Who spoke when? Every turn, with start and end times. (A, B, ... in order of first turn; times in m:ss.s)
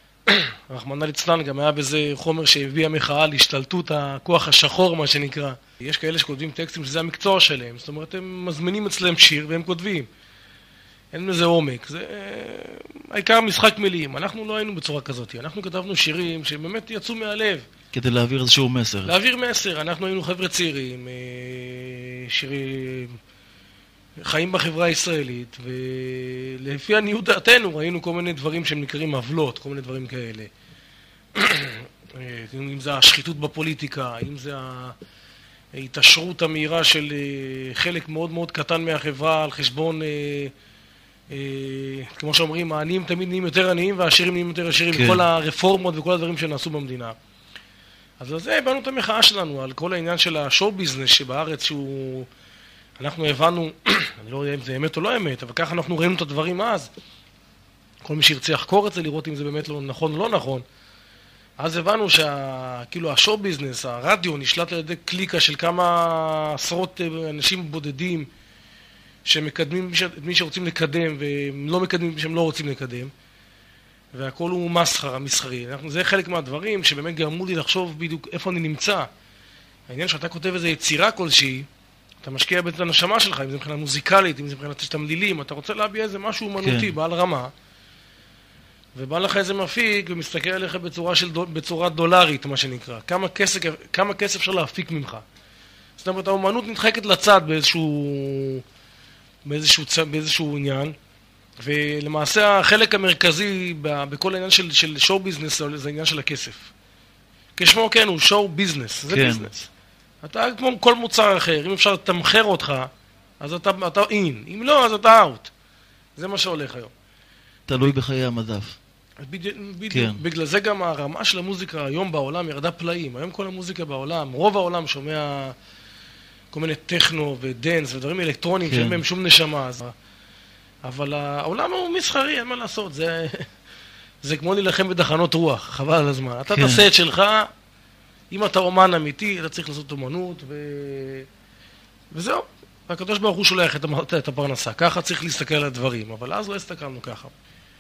0:00.3-0:10.1 A
0:11.1-0:17.7 A
0:17.9-0:19.2 B
0:19.0-0:23.2 A
0:24.2-0:30.5 A
0:31.4-0:35.0 A
0:35.7-0:40.5 A
0:41.3-0:47.2 A
0:44.9-0:45.2 B
0:48.2-0:52.3 A
0:53.0-0:56.9 A
0:58.0-1:00.6 A
1:01.6-1:08.3 A
1:09.3-1:13.1 A
1:14.1-1:19.1 A
1:19.9-1:21.7 A
1:22.2-1:27.5 A
1:26.6-1:26.9 B
1:29.0-1:35.2 A
1:36.0-1:38.6 A
1:39.4-1:41.0 A
1:41.6-1:46.7 A
1:47.6-1:49.7 A
1:49.1-1:49.5 B
1:50.2-1:52.9 A
1:53.4-1:55.5 A
1:56.2-1:56.9 A
1:57.7-1:58.8 B
1:59.2-2:05.6 A
1:59.9-2:00.2 B
2:06.5-2:09.9 A
2:08.7-2:09.0 B
2:10.8-2:13.5 A
2:14.2-2:17.5 A
2:16.5-2:16.8 B
2:18.3-2:21.3 A
2:22.1-2:27.3 A